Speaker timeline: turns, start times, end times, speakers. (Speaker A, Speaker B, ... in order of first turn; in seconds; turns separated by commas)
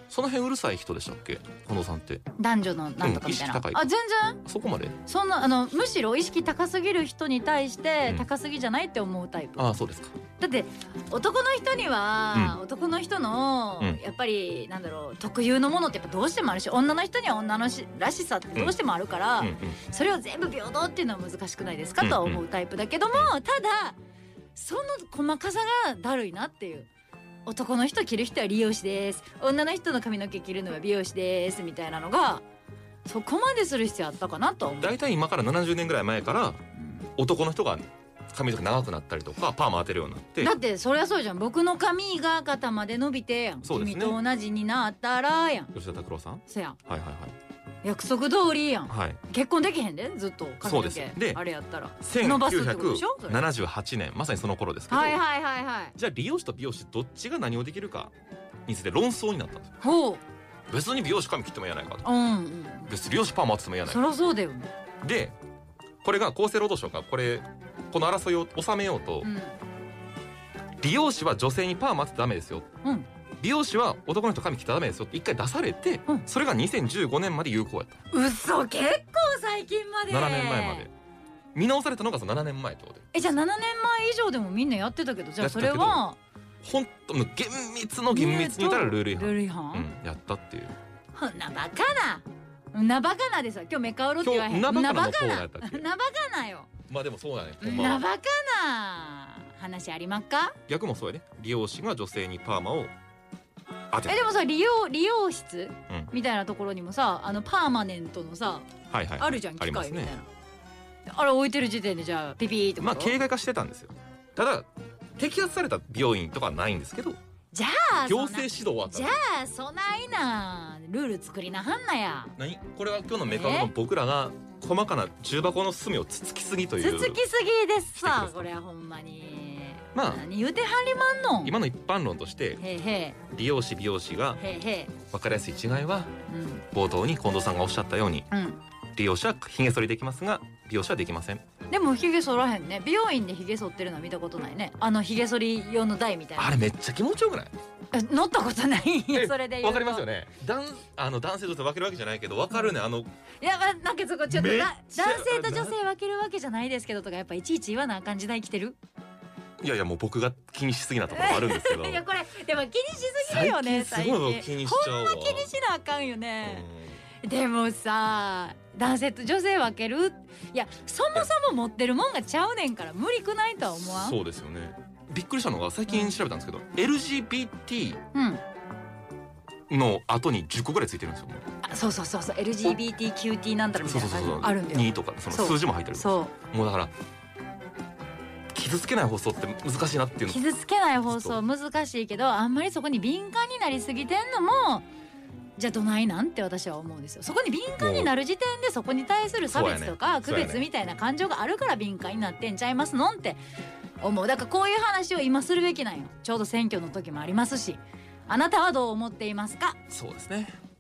Speaker A: 0.1-2.2, Speaker B: 2.4-4.4, Speaker A: 3.0-3.8, Speaker A: 4.5-5.0, Speaker B: 5.1-9.7, Speaker A: 9.6-10.1, Speaker B: 10.4-24.0, Speaker A: 12.3-12.6, Speaker A: 19.4-19.8, Speaker A: 22.0-22.4, Speaker B: 24.6-26.9, Speaker B: 27.5-32.4, Speaker B: 33.1-35.0, Speaker A: 34.8-36.6, Speaker B: 36.8-37.1, Speaker A: 37.2-40.5, Speaker B: 40.4-45.7, Speaker A: 43.6-44.2, Speaker A: 45.7-47.3, Speaker B: 46.5-46.8, Speaker B: 47.8-53.4, Speaker A: 48.9-49.2, Speaker A: 50.6-51.4, Speaker A: 52.0-55.2, Speaker B: 54.9-56.0, Speaker A: 56.0-58.1, Speaker A: 58.7-59.8, Speaker B: 59.8-60.2, Speaker A: 60.7-62.1, Speaker B: 62.0-62.9, Speaker A: 62.9-64.0, Speaker B: 63.9-64.7, Speaker A: 65.0-65.3, Speaker A: 66.0-69.3, Speaker B: 69.2-69.6, Speaker A: 70.8-72.7, Speaker A: 73.4-78.0, Speaker B: 78.1-80.9, Speaker A: 80.1-80.9, Speaker A: 81.5-83.1, Speaker B: 83.1-86.2, Speaker A: 85.4-86.0, Speaker A: 86.6-90.8, Speaker B: 88.1-89.9, Speaker B: 91.1-96.7, Speaker A: 94.2-95.8, Speaker A: 96.9-98.1, Speaker B: 97.6-100.6, Speaker A: 100.7-102.9, Speaker A: 103.9-104.2, Speaker B: 104.1-110.3, Speaker A: 108.9-110.1, Speaker B: 111.1-113.2, Speaker A: 112.8-117.2, Speaker B: 117.5-122.3, Speaker A: 118.1-119.2, Speaker A: 122.4-127.2, Speaker B: 123.3-123.7, Speaker B: 126.8-131.6, Speaker A: 128.0-128.5, Speaker A: 129.9-130.2, Speaker A: 131.4-132.6, Speaker B: 132.6-133.2, Speaker A: 133.3-134.4, Speaker B: 134.4-135.0, Speaker A: 135.1-136.1, Speaker B: 136.3-136.7, Speaker A: 136.7-138.3, Speaker B: 138.3-138.6, Speaker A: 139.0-141.4, Speaker B: 141.7-146.6, Speaker A: 146.4-147.5, Speaker B: 147.9-150.1, Speaker A: 149.1-153.1, Speaker B: 153.4-158.8, Speaker A: 154.3-155.7, Speaker A: 159.6-162.1, Speaker B: 161.1-166.7, Speaker A: 163.2-165.5, Speaker A: 166.4-167.0, Speaker B: 167.2-174.2, Speaker A: 173.8-178.0, Speaker B: 175.9-176.2, Speaker B: 178.1-178.4, Speaker A: 179.7-181.4, Speaker B: 181.6-186.3, Speaker A: 183.8-186.9, Speaker A: 188.5-190.4, Speaker B: 190.3-194.9, Speaker A: 191.1-191.4, Speaker B: 195.6-203.4, Speaker A: 197.8-198.1, Speaker A: 199.5-200.6, Speaker B: 204.0-209.8, Speaker A: 209.9-210.6